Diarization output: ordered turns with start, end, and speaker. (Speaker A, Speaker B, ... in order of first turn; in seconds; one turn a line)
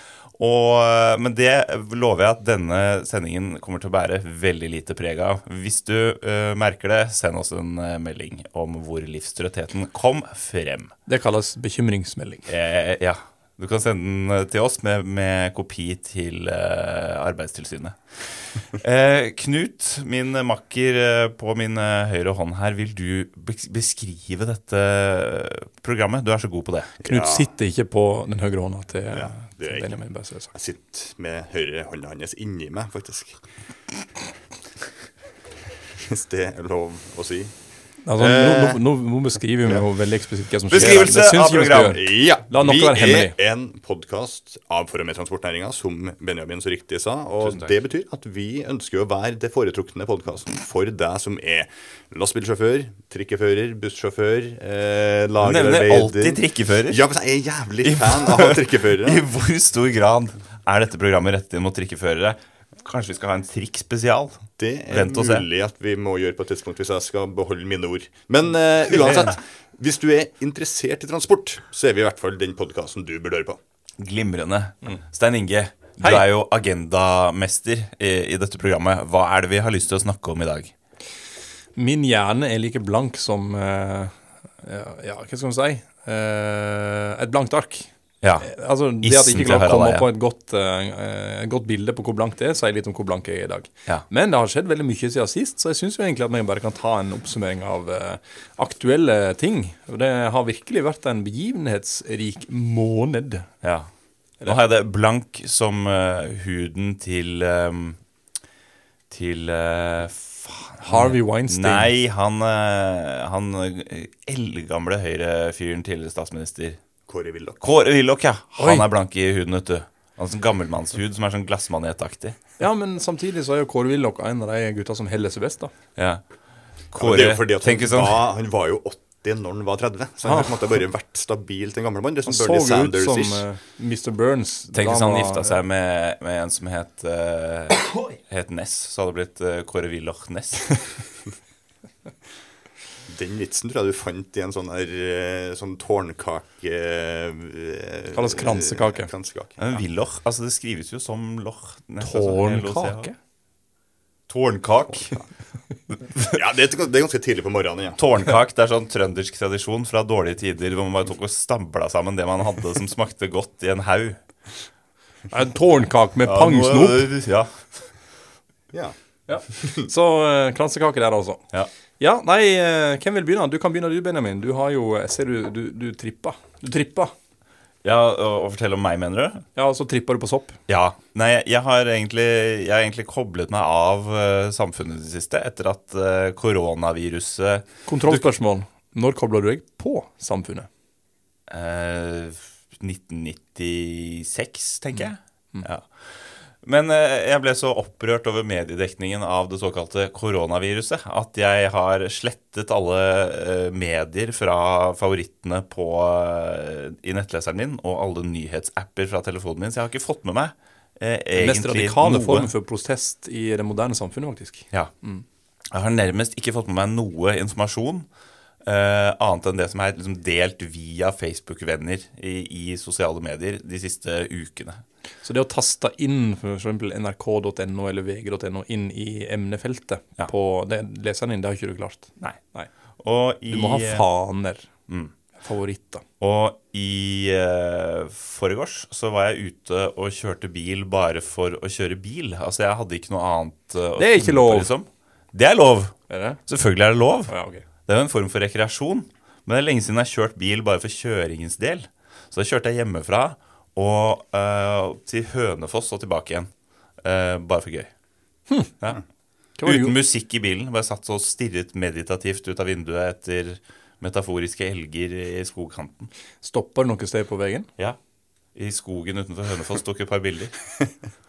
Speaker A: 0.4-10.9
Speaker B: 11.1-12.5
Speaker A: 12.5-27.1
Speaker C: 27.0-27.5
Speaker B: 27.1-30.5
Speaker C: 29.1-30.0
Speaker C: 30.5-33.4
Speaker C: 36.0-37.6
Speaker B: 38.0-43.4
Speaker C: 38.1-38.8
Speaker A: 40.7-42.1
Speaker C: 41.9-59.2
Speaker A: 47.4-47.7
Speaker A: 55.4-57.1
Speaker A: 57.8-65.5
Speaker C: 64.6-73.6
Speaker B: 68.9-69.3
Speaker A: 74.0-80.7
Speaker B: 81.8-103.5
Speaker A: 88.2-90.1
Speaker A: 103.6-103.9
Speaker A: 104.4-108.0
Speaker A: 109.1-116.8
Speaker B: 110.8-111.9
Speaker C: 117.1-117.6
Speaker A: 117.6-122.4
Speaker B: 118.6-118.9
Speaker B: 122.6-125.7
Speaker A: 126.0-126.2
Speaker A: 126.9-128.3
Speaker C: 126.9-133.5
Speaker B: 130.2-130.5
Speaker B: 132.3-135.6
Speaker A: 134.7-140.9
Speaker C: 143.1-149.7
Speaker B: 148.1-149.1
Speaker A: 149.6-153.1
Speaker B: 152.0-153.2
Speaker A: 154.3-155.2
Speaker C: 156.3-158.0
Speaker A: 158.0-164.2
Speaker B: 165.3-167.1
Speaker A: 166.3-167.9
Speaker B: 169.3-171.4
Speaker B: 172.0-177.1
Speaker A: 177.8-179.4
Speaker B: 179.6-180.6
Speaker A: 180.7-188.3
Speaker B: 187.9-190.7
Speaker A: 191.5-212.5
Speaker B: 211.3-215.2
Speaker A: 215.7-218.1
Speaker A: 218.7-224.8
Speaker B: 225.2-232.7
Speaker A: 233.0-234.1
Speaker B: 233.5-234.7
Speaker A: 234.9-235.1
Speaker B: 235.4-236.0
Speaker A: 236.2-247.3
Speaker B: 244.0-244.7
Speaker B: 246.1-246.4
Speaker B: 247.3-247.7
Speaker A: 247.9-256.5
Speaker A: 257.0-257.9
Speaker B: 259.6-259.9
Speaker A: 259.6-266.1
Speaker B: 266.4-267.7
Speaker A: 268.6-270.6